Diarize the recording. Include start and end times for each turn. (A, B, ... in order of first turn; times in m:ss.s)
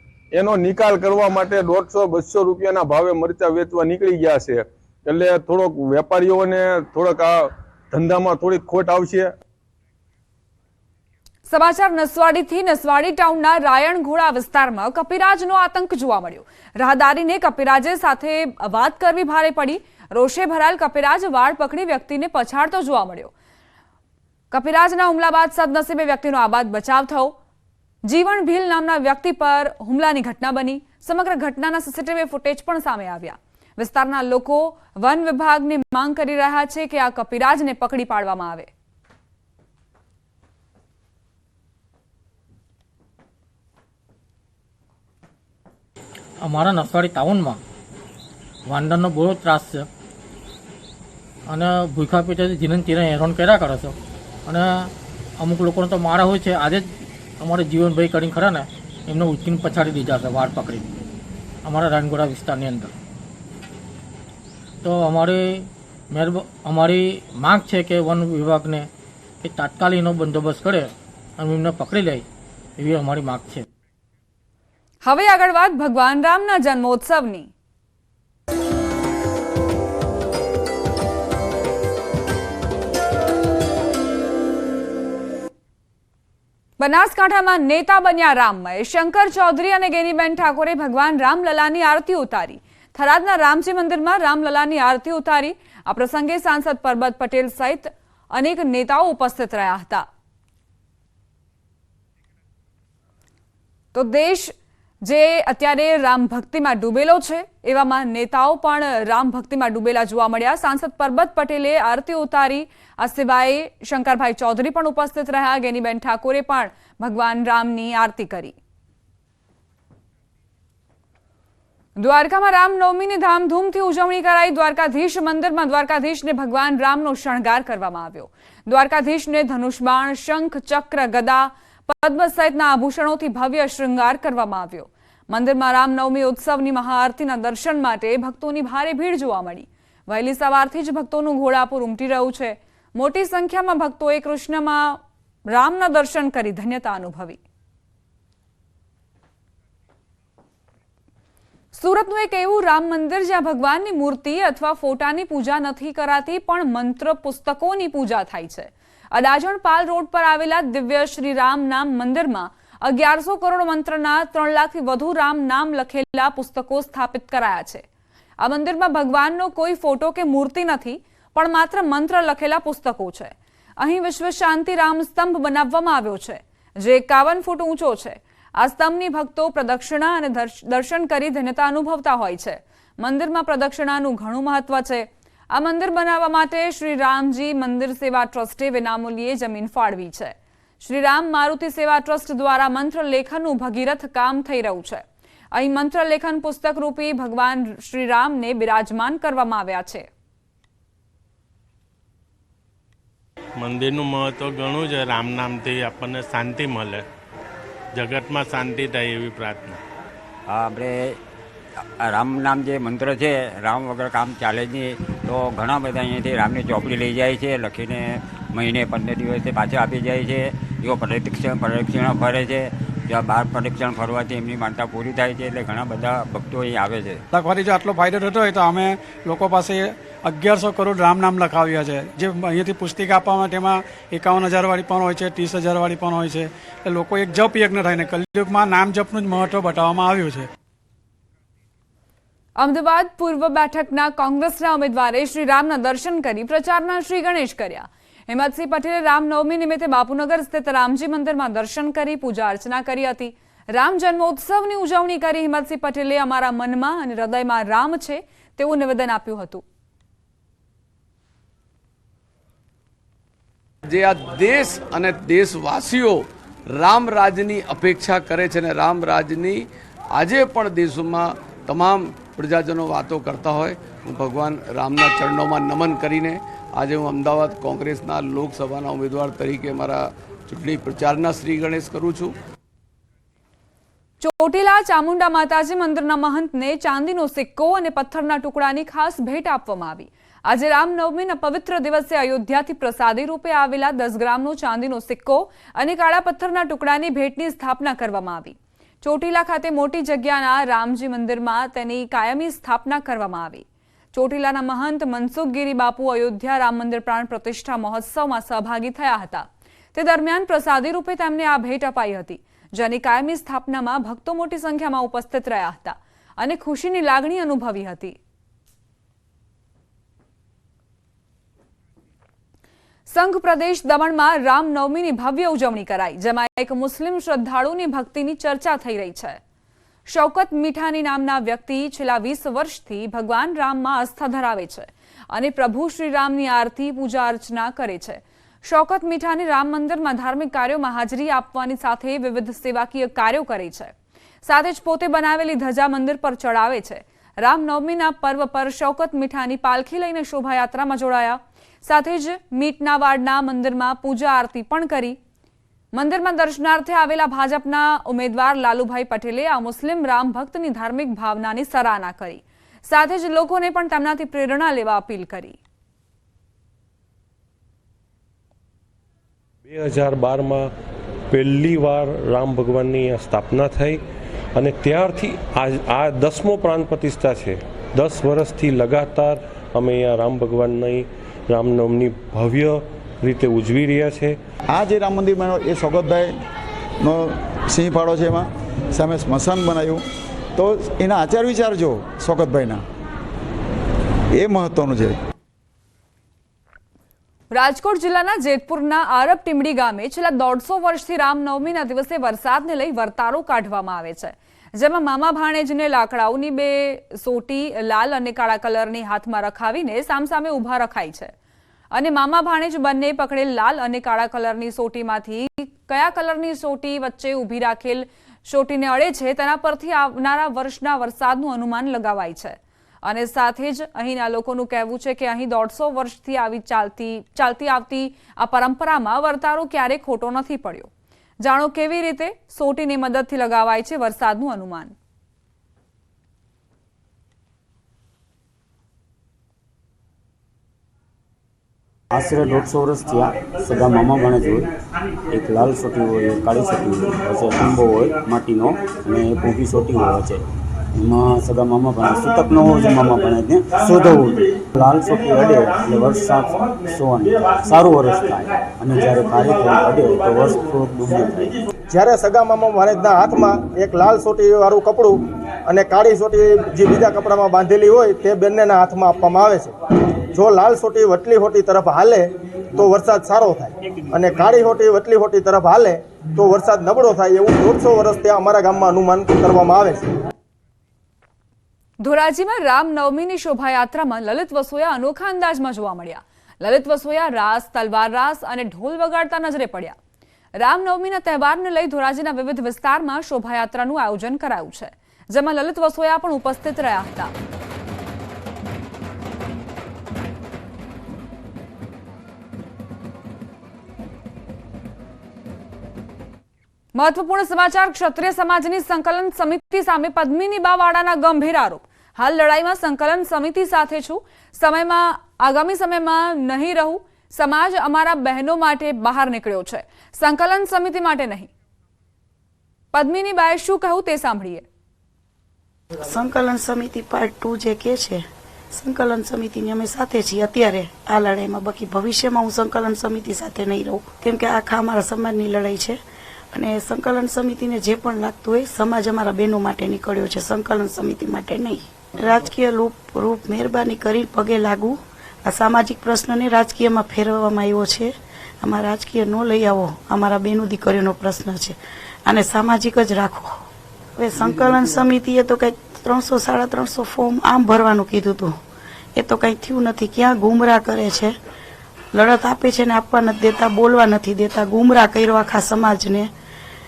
0:00.4-0:09.3 A
0:11.5-0:23.3 B
0:24.5-0:27.4 B
0:28.0-0:38.7 B
0:46.4-0:47.6 C
0:48.7-0:49.9 C
0:51.5-1:00.9 C
1:01.6-1:02.9 C
1:04.8-1:08.9 C
1:09.4-1:12.2 C
1:12.8-1:13.7 C
1:15.0-1:17.5 B
1:26.8-1:40.0 B
1:43.9-1:44.5 B
1:45.0-1:58.6 B
2:02.0-2:25.0 B
2:25.5-2:27.4 B
2:31.8-2:47.8 B
2:48.4-3:15.0 B
3:15.6-3:20.1 B
3:23.6-3:27.0 D
3:28.0-3:29.8 D
3:30.5-3:31.2 E
3:32.0-3:47.2 E
3:47.3-4:00.5 F
4:02.6-4:19.6 B
4:23.9-4:42.3 G
4:44.2-5:18.2 B
5:23.1-5:29.4 B
5:30.1-5:43.9 B
5:44.4-5:55.2 B
5:56.0-6:05.6 B
6:09.7-6:10.7 H
6:11.3-6:14.0 H
6:14.6-6:24.4 H
6:24.7-6:26.3 I
6:27.0-6:30.0 I
6:30.6-6:32.8 I
6:34.4-6:35.2 I
6:37.5-6:51.3 B
6:51.9-7:10.9 B
7:11.4-7:15.0 B
7:22.2-7:24.6 J
7:25.3-7:30.4 J
7:26.4-7:29.7 D
7:31.0-7:41.5 J
7:32.1-7:34.2 D
7:35.0-7:36.5 D
7:37.6-7:38.3 D
7:38.9-7:40.5 D
7:41.9-7:49.8 K
7:50.3-8:00.1 K
8:02.0-8:10.0 B
8:10.6-8:17.3 B
8:27.0-8:41.5 B
8:42.9-8:44.6 B
8:46.0-8:56.0 L
8:56.5-9:13.6 L
9:14.2-9:18.6 L
9:19.2-9:21.3 L
9:22.1-9:26.3 L